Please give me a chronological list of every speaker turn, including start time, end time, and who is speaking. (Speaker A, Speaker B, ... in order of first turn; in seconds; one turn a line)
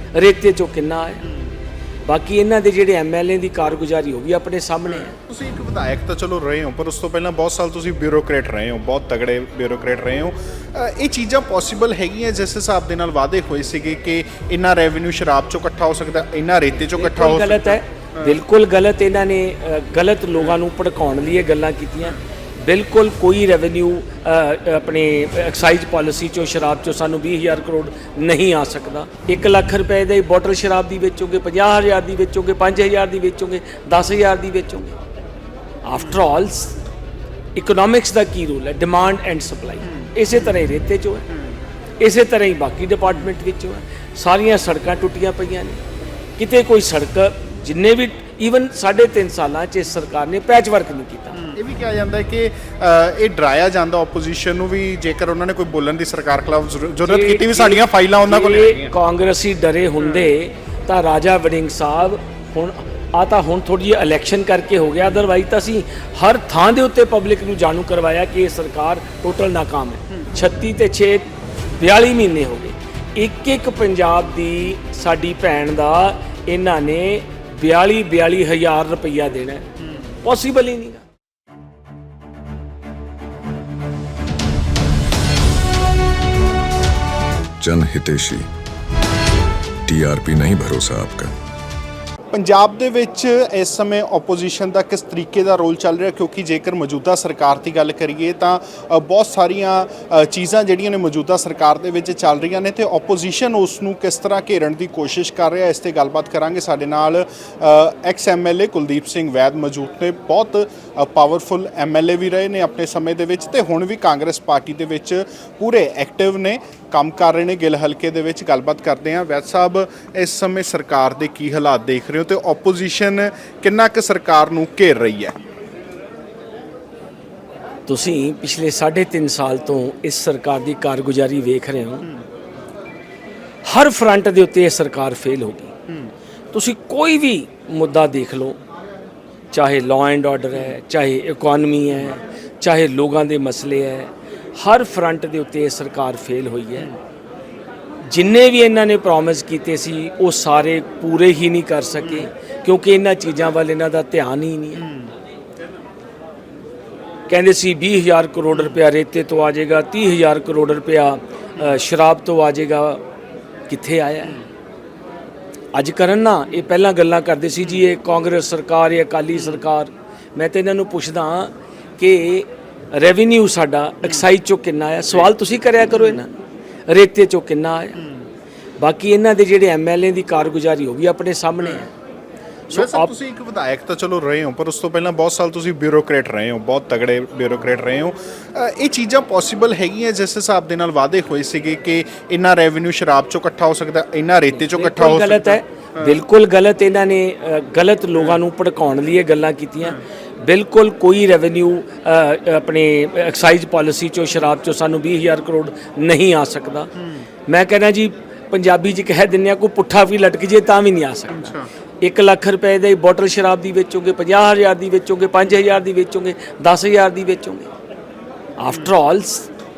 Speaker A: 0.1-1.2
Speaker B: 1.2-1.5
Speaker A: 2.0-5.1
Speaker B: 4.9-18.4
Speaker A: 17.0-35.0
Speaker A: 35.8-36.8
Speaker B: 35.9-36.2
Speaker A: 37.5-41.3
Speaker B: 39.8-40.5
Speaker B: 41.3-41.5
Speaker A: 42.0-45.8
Speaker A: 46.4-51.4
Speaker B: 51.3-58.9
Speaker A: 57.0-79.7
Speaker B: 60.0-60.3
Speaker A: 80.2-81.0
Speaker C: 87.6-88.5
Speaker C: 89.9-91.3
Speaker B: 92.3-125.4
Speaker A: 127.9-132.1
Speaker A: 133.6-135.7
Speaker A: 136.5-138.6
Speaker A: 139.5-146.9
Speaker A: 148.0-154.9
Speaker B: 152.0-152.3
Speaker B: 154.7-155.1
Speaker A: 157.3-163.0
Speaker B: 158.5-158.8
Speaker A: 163.7-164.4
Speaker A: 165.7-178.0
Speaker B: 169.3-169.6
Speaker B: 174.0-174.3
Speaker B: 175.9-176.2
Speaker B: 177.9-178.3
Speaker A: 178.8-181.9
Speaker B: 181.6-181.8
Speaker A: 182.7-183.1
Speaker B: 182.7-196.2
Speaker A: 194.6-206.9
Speaker B: 198.1-198.4
Speaker B: 206.9-207.2
Speaker A: 207.5-217.7
Speaker B: 211.3-211.7
Speaker A: 218.6-219.5
Speaker B: 218.7-218.9